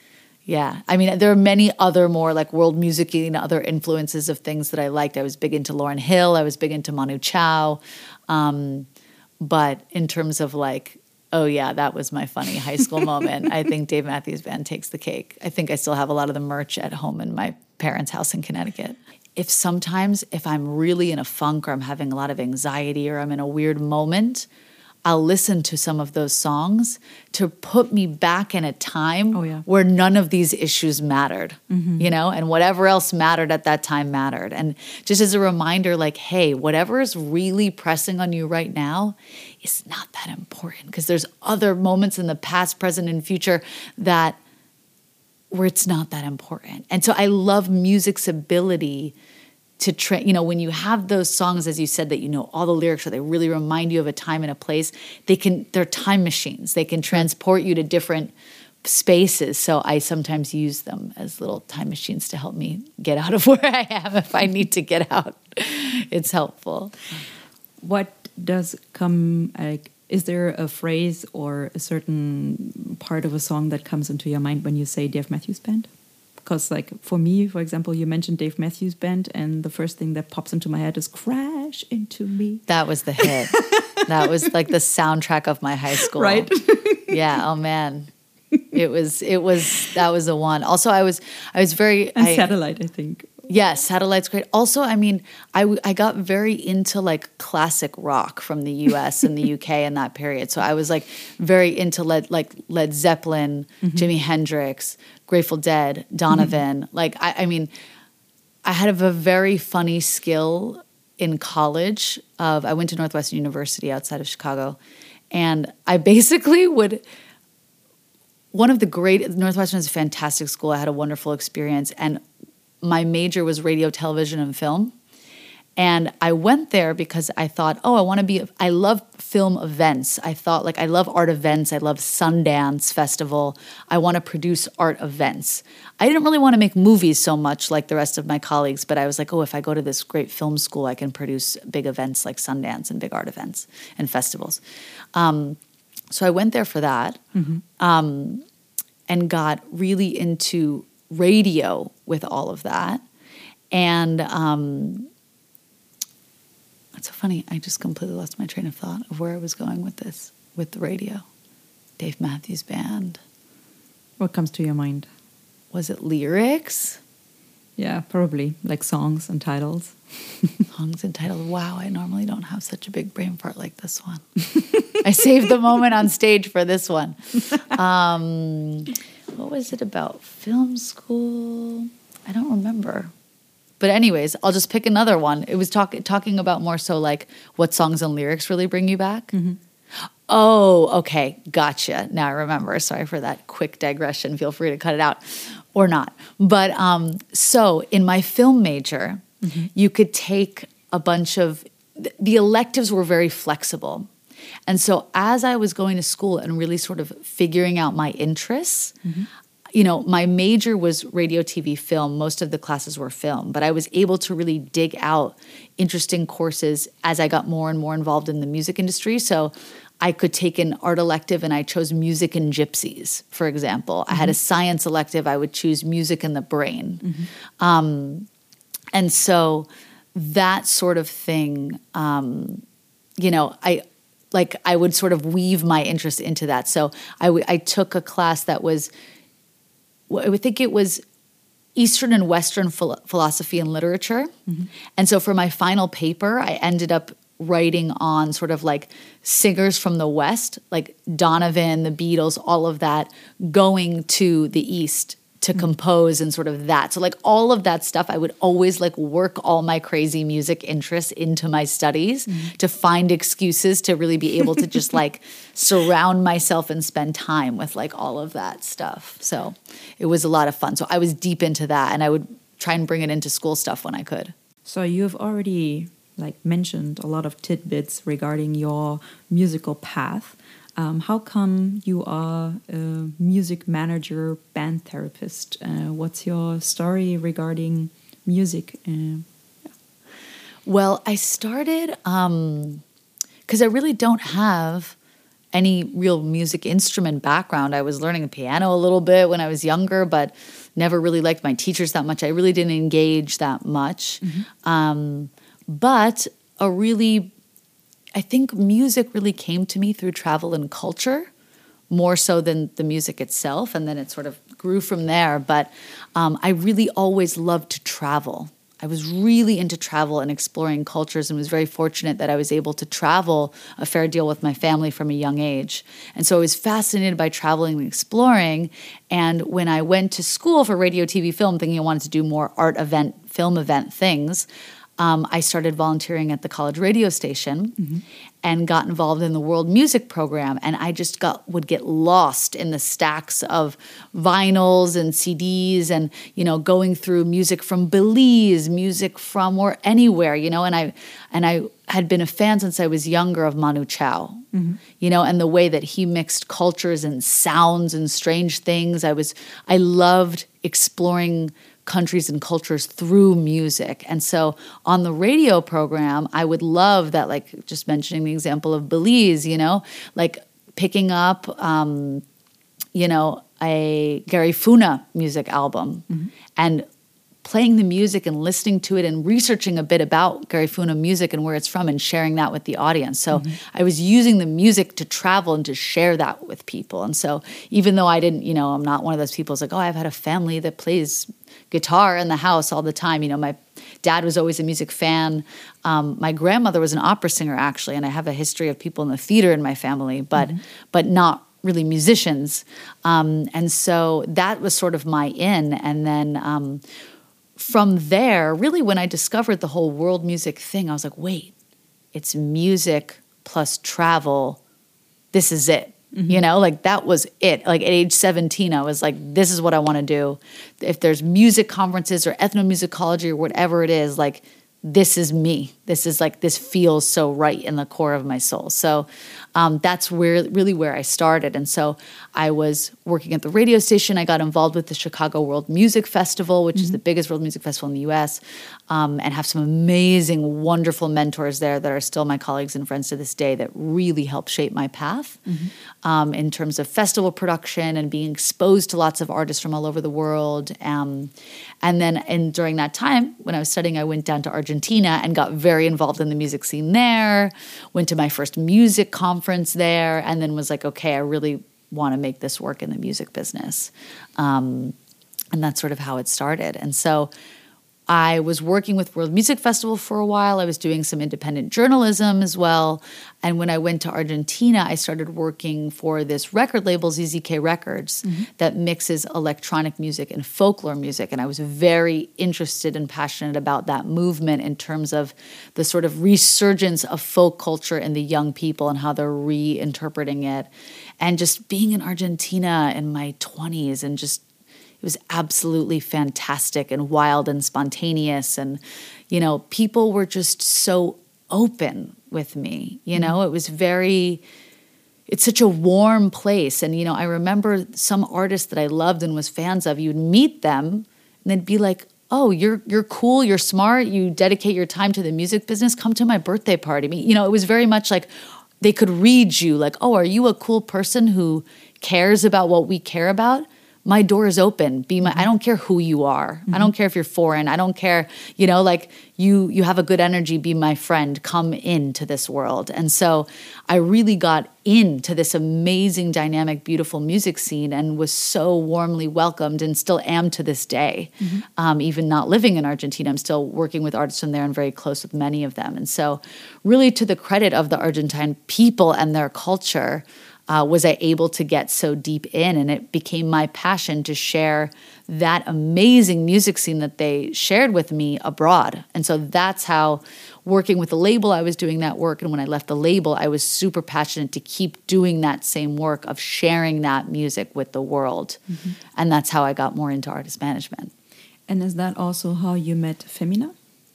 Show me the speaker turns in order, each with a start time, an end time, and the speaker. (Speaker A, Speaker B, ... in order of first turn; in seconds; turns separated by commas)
Speaker A: 0.5-8.9, Speaker A: 9.4-24.5, Speaker A: 25.0-44.4, Speaker B: 29.3-29.6, Speaker B: 31.7-32.1, Speaker A: 45.5-49.1, Speaker A: 49.8-58.3, Speaker A: 58.8-67.0, Speaker B: 67.8-75.9, Speaker B: 76.4-82.6, Speaker A: 82.7-86.5, Speaker B: 83.2-84.4, Speaker B: 86.0-87.2, Speaker A: 87.1-88.1, Speaker A: 88.7-92.5, Speaker B: 92.2-93.5, Speaker A: 93.5-107.7, Speaker B: 103.8-104.1, Speaker A: 108.6-114.8, Speaker A: 115.3-117.0, Speaker A: 118.5-122.2, Speaker A: 122.8-124.9, Speaker A: 125.8-144.6, Speaker A: 145.1-145.6, Speaker A: 146.1-147.2, Speaker B: 147.3-147.6, Speaker A: 147.8-148.4, Speaker A: 149.1-153.0, Speaker A: 153.7-155.1, Speaker A: 156.9-161.2, Speaker A: 162.0-163.2, Speaker B: 164.2-165.1, Speaker A: 165.7-167.0, Speaker B: 167.8-170.6, Speaker A: 170.7-174.2, Speaker A: 174.9-183.1, Speaker A: 183.8-189.3, Speaker B: 189.3-189.6, Speaker A: 190.3-204.1, Speaker B: 199.4-199.7, Speaker A: 204.7-209.0, Speaker B: 209.0-209.3, Speaker A: 209.7-227.1, Speaker B: 227.0-227.3, Speaker A: 227.6-228.3, Speaker A: 228.9-232.6, Speaker A: 233.2-238.9, Speaker A: 240.1-241.0, Speaker A: 241.8-244.3, Speaker A: 244.9-274.3, Speaker B: 274.6-289.2, Speaker A: 290.6-292.8, Speaker A: 293.5-294.9, Speaker A: 295.5-307.3, Speaker B: 304.2-304.5, Speaker A: 308.1-311.3, Speaker A: 311.9-334.5, Speaker A: 335.0-337.8, Speaker A: 338.4-354.4, Speaker B: 354.5-354.8, Speaker A: 355.0-372.2, Speaker A: 372.9-376.9, Speaker A: 377.4-406.8, Speaker B: 383.3-383.6, Speaker A: 407.6-411.5, Speaker A: 412.1-414.6, Speaker A: 415.3-445.4, Speaker B: 416.1-416.4, Speaker B: 445.4-445.7, Speaker A: 446.0-464.9, Speaker A: 465.5-467.3, Speaker A: 468.1-490.7, Speaker A: 491.2-494.4, Speaker A: 495.0-504.4, Speaker A: 505.3-568.6, Speaker B: 541.4-541.6, Speaker B: 568.7-569.0, Speaker A: 569.1-571.1, Speaker B: 571.7-573.7